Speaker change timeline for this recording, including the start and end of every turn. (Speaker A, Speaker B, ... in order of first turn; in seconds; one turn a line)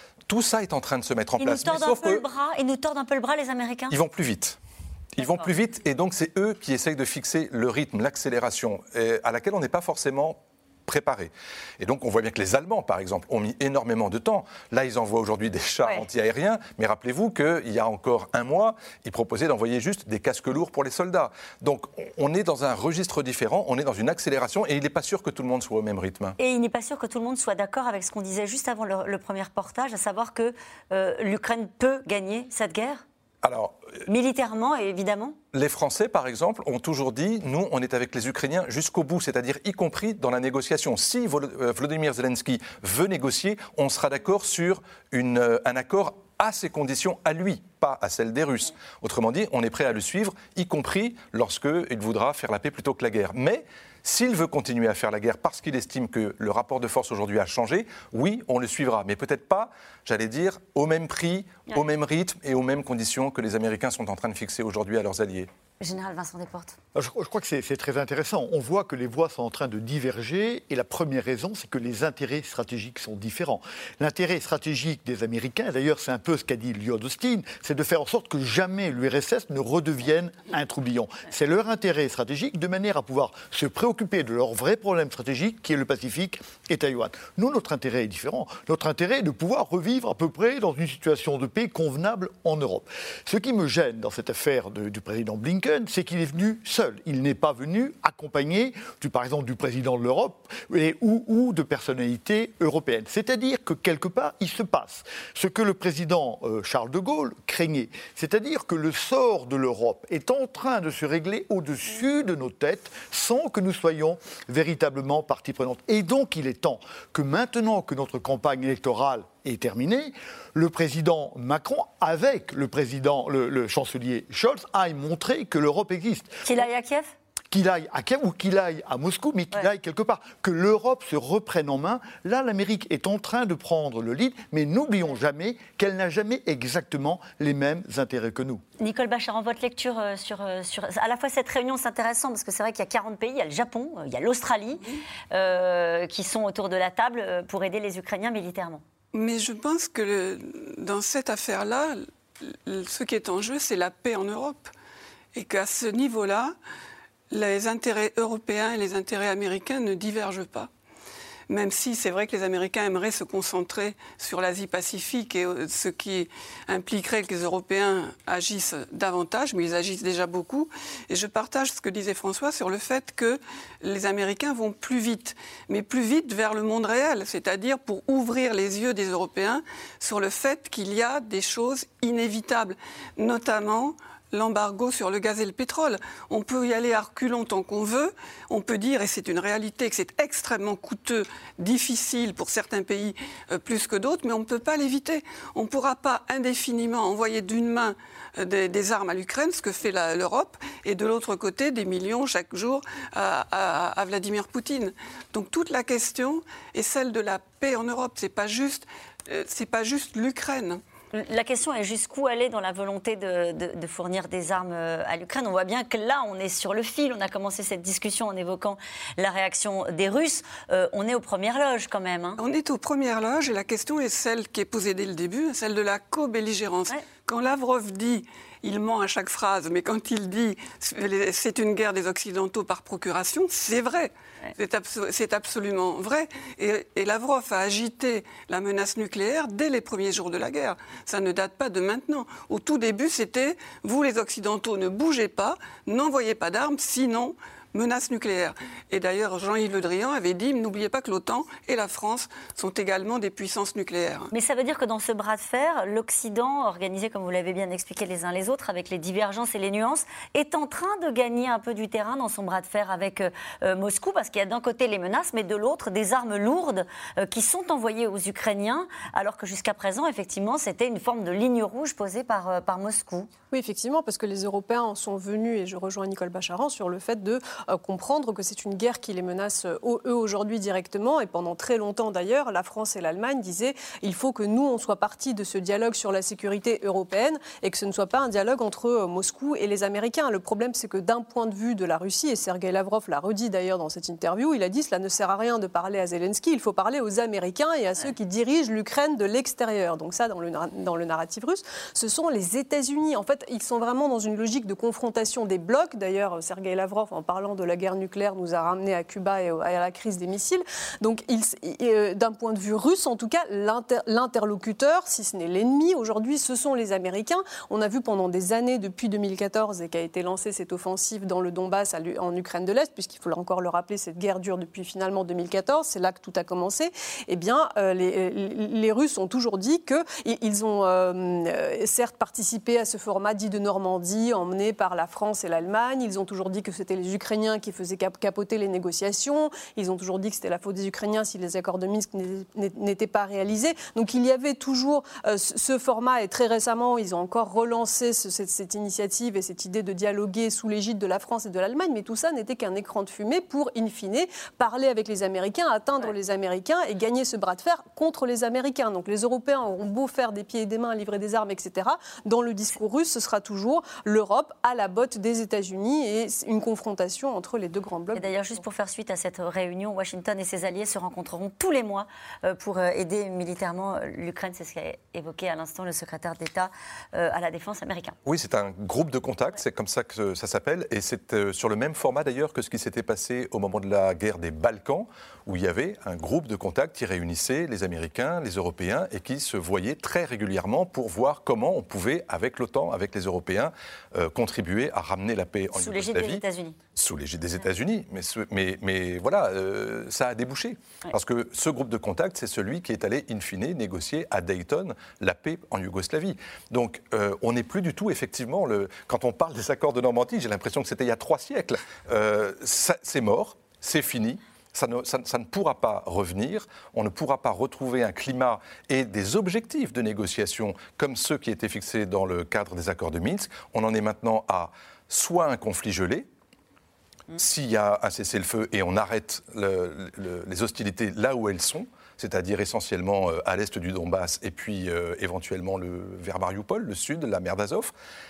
Speaker A: 0.3-2.2
Speaker B: 1.4-3.9
Speaker A: 3.9-4.6
Speaker A: 5.2-26.4
Speaker B: 5.2-5.5
Speaker B: 26.4-33.0
Speaker A: 33.4-34.0
Speaker B: 34.0-35.4
Speaker A: 35.5-65.5
Speaker B: 65.8-66.8
Speaker C: 66.9-126.4
Speaker B: 126.4-127.1
Speaker C: 127.5-138.6
Speaker B: 138.8-148.8
Speaker D: 149.1-154.7
Speaker D: 155.3-156.5
Speaker D: 157.3-160.7
Speaker D: 161.5-210.8
Speaker B: 211.1-222.4
Speaker D: 222.4-254.3
Speaker B: 254.3-273.3
Speaker E: 273.5-368.3
Speaker B: 368.1-378.1
Speaker A: 378.2-396.4
Speaker B: 395.7-396.8
Speaker A: 396.9-426.2
Speaker A: 427.3-437.9